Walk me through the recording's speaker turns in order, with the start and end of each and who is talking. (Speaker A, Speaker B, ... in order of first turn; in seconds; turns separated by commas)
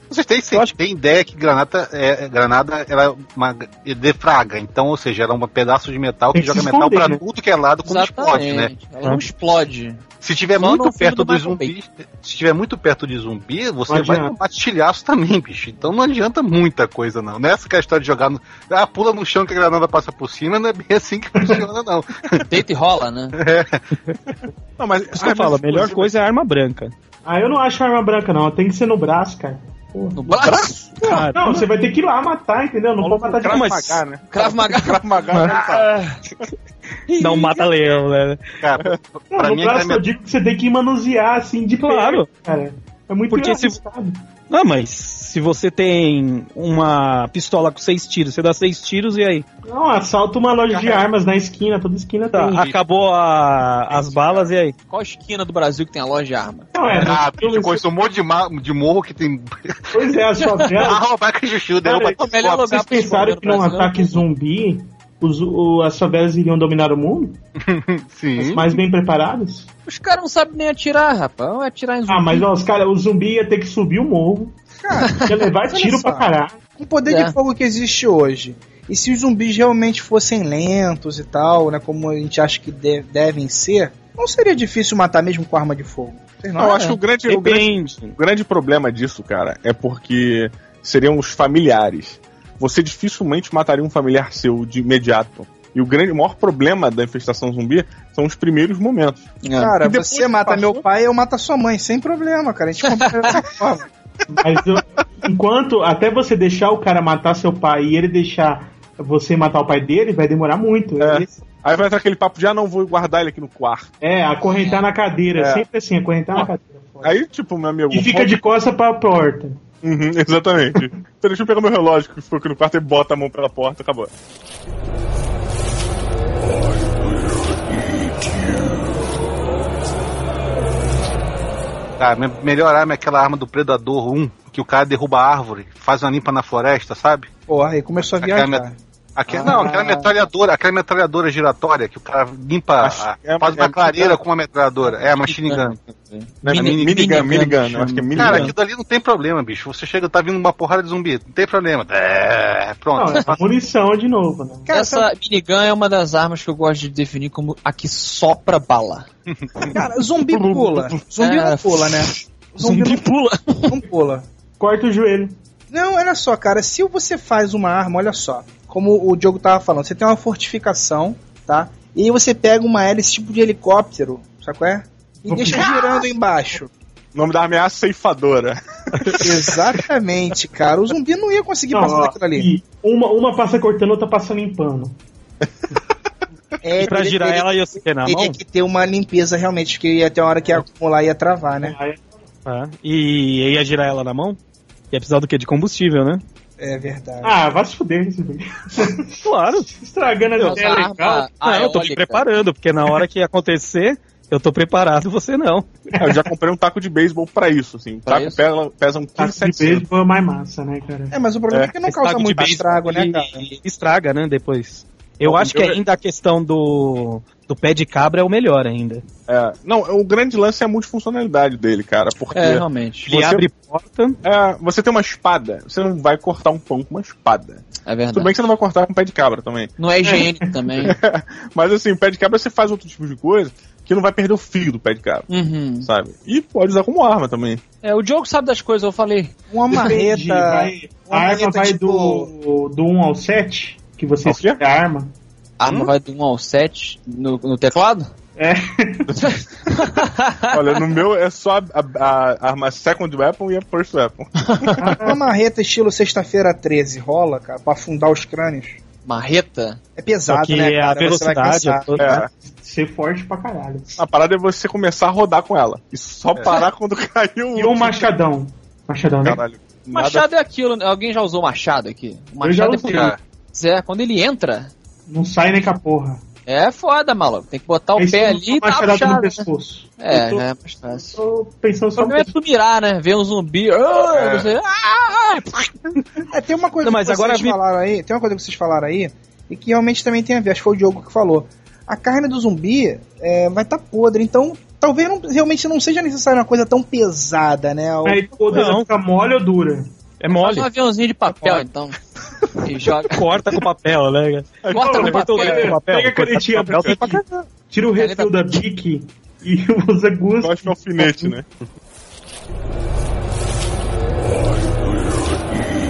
Speaker A: 0.1-8.7, Speaker B: 6.3-7.2, Speaker C: 7.8-10.0, Speaker A: 10.2-22.4, Speaker C: 10.6-11.7, Speaker B: 13.9-14.3, Speaker C: 22.4-23.4, Speaker A: 23.4-23.8, Speaker D: 24.8-26.1, Speaker E: 25.1-26.9, Speaker B: 27.2-30.3, Speaker C: 30.1-30.8, Speaker D: 30.4-31.2, Speaker E: 31.0-31.6, Speaker B: 31.3-33.7, Speaker D: 33.0-35.9, Speaker E: 33.4-34.0, Speaker C: 34.3-36.2, Speaker C: 37.1-37.6, Speaker E: 37.2-38.4, Speaker A: 38.6-40.0, Speaker B: 39.3-44.2, Speaker E: 41.8-42.3, Speaker E: 43.3-43.8, Speaker E: 44.5-49.4, Speaker B: 49.6-52.6, Speaker A: 50.7-51.0, Speaker E: 52.3-54.7, Speaker A: 53.9-54.5, Speaker C: 54.9-57.0, Speaker B: 56.7-57.8, Speaker A: 56.9-59.9, Speaker B: 59.9-61.0, Speaker C: 60.4-60.9, Speaker A: 60.7-62.6, Speaker B: 61.9-67.4, Speaker C: 62.0-64.2, Speaker A: 67.6-68.8, Speaker B: 68.4-69.7, Speaker C: 69.9-72.5, Speaker B: 72.1-74.5, Speaker F: 74.8-76.3, Speaker C: 75.0-75.3, Speaker B: 75.2-76.6, Speaker F: 76.8-87.0, Speaker C: 77.1-77.3, Speaker D: 86.6-99.2, Speaker E: 87.2-88.2, Speaker C: 99.4-99.7, Speaker F: 99.6-103.8, Speaker C: 102.8-103.3, Speaker B: 104.3-111.3, Speaker D: 111.0-113.9, Speaker B: 114.0-117.2, Speaker C: 114.4-114.8, Speaker D: 115.3-115.7, Speaker D: 117.0-118.4, Speaker B: 117.9-119.6, Speaker D: 119.8-124.1, Speaker A: 132.0-137.3, Speaker F: 137.5-138.8, Speaker A: 138.2-138.6, Speaker A: 139.2-145.8, Speaker C: 139.3-140.1, Speaker D: 142.8-144.2, Speaker C: 144.8-148.5, Speaker D: 146.4-148.5, Speaker A: 146.5-147.4, Speaker A: 148.2-153.4, Speaker B: 152.9-154.7, Speaker F: 154.7-155.1, Speaker C: 154.7-159.1, Speaker F: 159.7-163.1, Speaker C: 161.2-163.8, Speaker F: 163.7-164.2, Speaker B: 164.6-165.4, Speaker F: 165.7-176.7, Speaker B: 175.2-175.8, Speaker D: 177.1-179.6, Speaker F: 179.2-182.5, Speaker B: 181.7-184.9, Speaker F: 186.6-191.8, Speaker E: 186.8-188.4, Speaker B: 191.6-192.0, Speaker E: 192.4-194.4, Speaker E: 194.9-196.2, Speaker F: 196.6-197.3, Speaker B: 197.2-201.2, Speaker E: 199.2-199.7, Speaker C: 200.4-202.2, Speaker E: 200.4-200.7, Speaker E: 201.4-205.7, Speaker B: 205.9-206.2, Speaker D: 206.0-209.9, Speaker C: 208.1-208.4, Speaker B: 209.2-211.2, Speaker F: 211.1-213.4, Speaker E: 211.9-219.0, Speaker D: 215.2-215.8, Speaker D: 219.3-223.4, Speaker C: 222.3-223.2, Speaker E: 223.1-224.2, Speaker D: 224.2-229.7, Speaker C: 227.8-228.3, Speaker C: 229.8-230.9, Speaker B: 230.0-230.5, Speaker D: 230.8-235.3, Speaker C: 235.3-235.9, Speaker D: 235.8-237.6, Speaker C: 237.8-239.3, Speaker F: 239.5-242.3, Speaker B: 239.7-245.1, Speaker D: 244.2-244.6, Speaker C: 245.6-248.1, Speaker A: 245.6-245.9, Speaker B: 248.4-249.1, Speaker D: 249.1-249.4, Speaker C: 249.2-250.8, Speaker D: 250.5-254.9, Speaker C: 254.5-254.8, Speaker B: 254.8-255.2, Speaker F: 255.0-258.8, Speaker C: 259.1-259.8, Speaker F: 260.0-262.2, Speaker E: 260.3-262.2, Speaker D: 262.0-262.3, Speaker B: 262.4-264.0, Speaker D: 264.0-268.1, Speaker A: 266.3-266.6, Speaker B: 267.5-269.4, Speaker D: 269.2-270.3, Speaker C: 269.9-274.7, Speaker B: 272.4-273.1, Speaker A: 272.9-273.2, Speaker B: 275.1-276.2, Speaker C: 276.5-279.5, Speaker B: 278.0-280.4, Speaker C: 280.0-281.2, Speaker B: 281.0-282.3, Speaker C: 282.0-285.7, Speaker A: 284.1-284.5, Speaker F: 286.3-298.3, Speaker E: 286.8-287.6, Speaker B: 298.0-299.9, Speaker E: 298.5-298.9, Speaker E: 300.2-300.7, Speaker C: 300.4-302.0, Speaker C: 302.6-303.2, Speaker E: 303.1-307.1, Speaker D: 304.6-305.7, Speaker C: 304.7-305.7, Speaker B: 304.8-311.4, Speaker D: 306.7-307.0, Speaker C: 307.9-308.6, Speaker D: 310.4-311.5